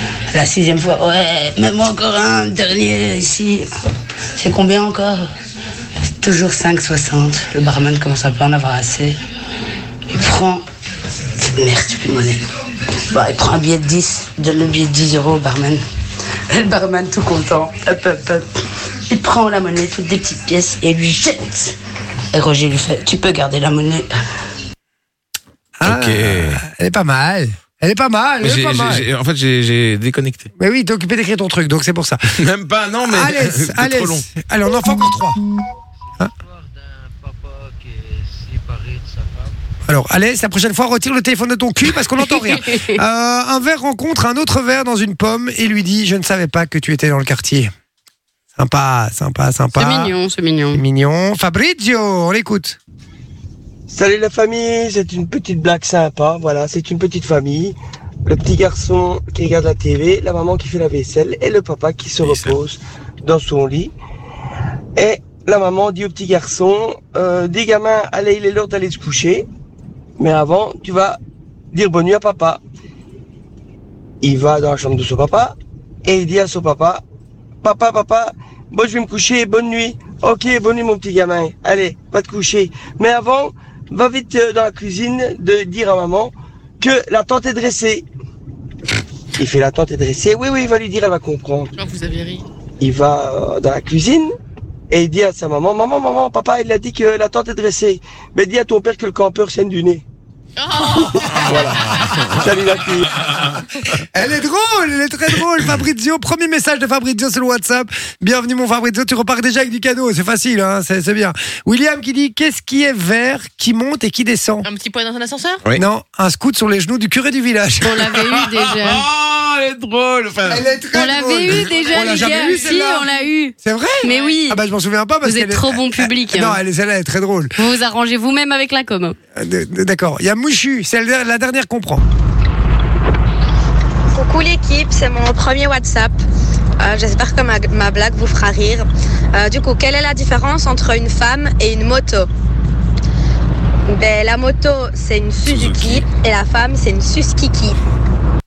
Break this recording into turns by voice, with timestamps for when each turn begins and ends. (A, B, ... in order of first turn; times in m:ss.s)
0:00.3-0:03.7 A
0:04.4-0:05.3 A
0:06.2-0:09.2 A
0:10.1-0:10.6 A
0:11.4-0:12.4 A
0:13.1-0:15.8 A
0:16.5-0:18.5 A
0:19.1-0:21.8 A
0:22.3-0:24.1 A
0:25.8-0:29.1 B
0:25.8-0:26.6 C
0:28.4-0:30.5 C
0:30.6-0:32.2 B
0:32.4-0:34.2 C
0:33.1-0:35.4 B
0:39.9-0:47.7 B
0:42.3-0:43.0 D
0:48.6-0:50.2 B
0:49.8-0:50.8 D
0:50.7-0:52.8 B
0:53.9-1:03.9 E
1:02.2-1:02.6 C
1:05.0-1:09.5 E
1:10.2-1:11.2 E
1:11.7-1:12.6 E
1:14.2-1:17.0 E
1:17.6-1:28.1 E
1:29.4-1:31.7 E
1:31.8-1:32.4 F
1:32.8-1:34.3 E
1:34.9-1:40.0 E
1:40.6-1:42.1 F
1:41.3-1:42.4 C
1:41.4-1:41.8 E
1:42.4-1:43.1 E
1:44.1-1:54.7 B
1:54.6-1:55.6 F
1:55.8-1:58.1 B
1:57.8-1:59.0 D
1:58.4-2:00.6 C
2:00.5-2:07.6 B
2:00.9-2:04.6 D
2:01.5-2:03.1 F
2:04.0-2:04.4 F
2:05.2-2:06.6 D
2:07.6-2:09.2 D
2:09.4-2:12.0 B
2:14.1-2:16.2 G
2:16.8-2:22.3 G
2:23.9-2:27.8 G
2:25.5-2:25.9 C